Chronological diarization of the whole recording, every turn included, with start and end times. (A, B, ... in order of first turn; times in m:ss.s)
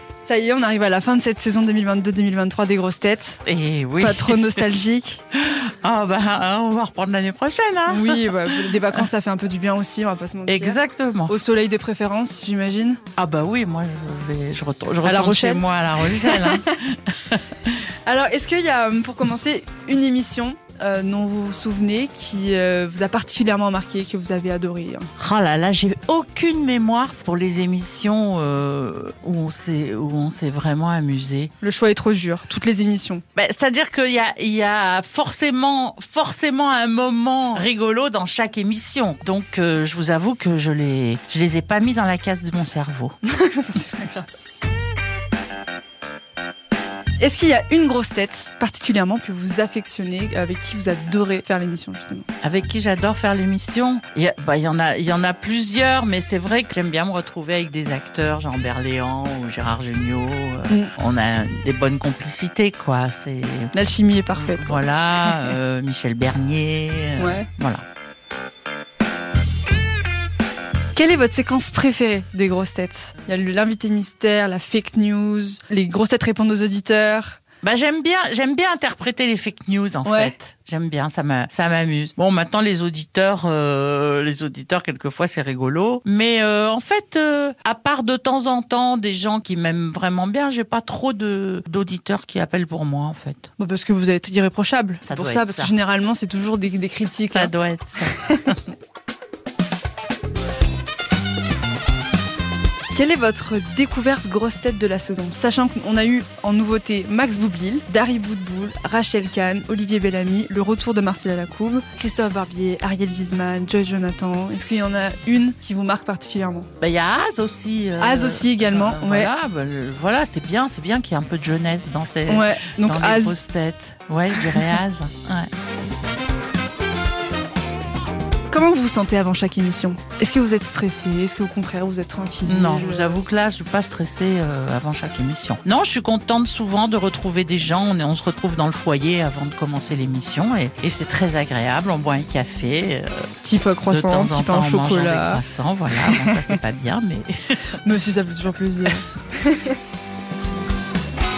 0:00.2-0:03.4 A
0:03.4-0:04.6 B
0:04.0-0:05.2 A
0:05.4-0:08.7 B
0:07.9-0:13.0 A
0:10.5-0:11.3 B
0:13.2-0:17.4 B
0:15.0-0:16.7 A
0:18.1-0:25.1 A
0:25.2-0:31.5 B
0:31.6-0:33.2 A
0:33.4-0:43.2 B
0:43.3-0:44.3 A
0:47.2-0:52.3 A
0:52.4-1:03.7 B
1:03.7-1:05.5 A
1:04.3-1:07.8 B
1:07.2-1:07.5 A
1:11.0-1:17.4 A
1:17.6-1:33.5 B
1:20.0-1:20.3 A
1:33.6-1:37.5 A
1:35.0-1:35.7 B
1:37.3-1:38.6 B
1:42.9-1:56.7 A
1:56.8-2:05.5 B
1:58.0-1:59.3 A
2:02.3-2:03.4 A
2:04.4-2:04.8 A
2:08.5-2:13.2 A
2:12.4-2:23.3 B
2:23.4-2:25.4 A
2:23.9-2:27.6 B
2:26.0-2:26.5 A
2:27.8-2:29.8 A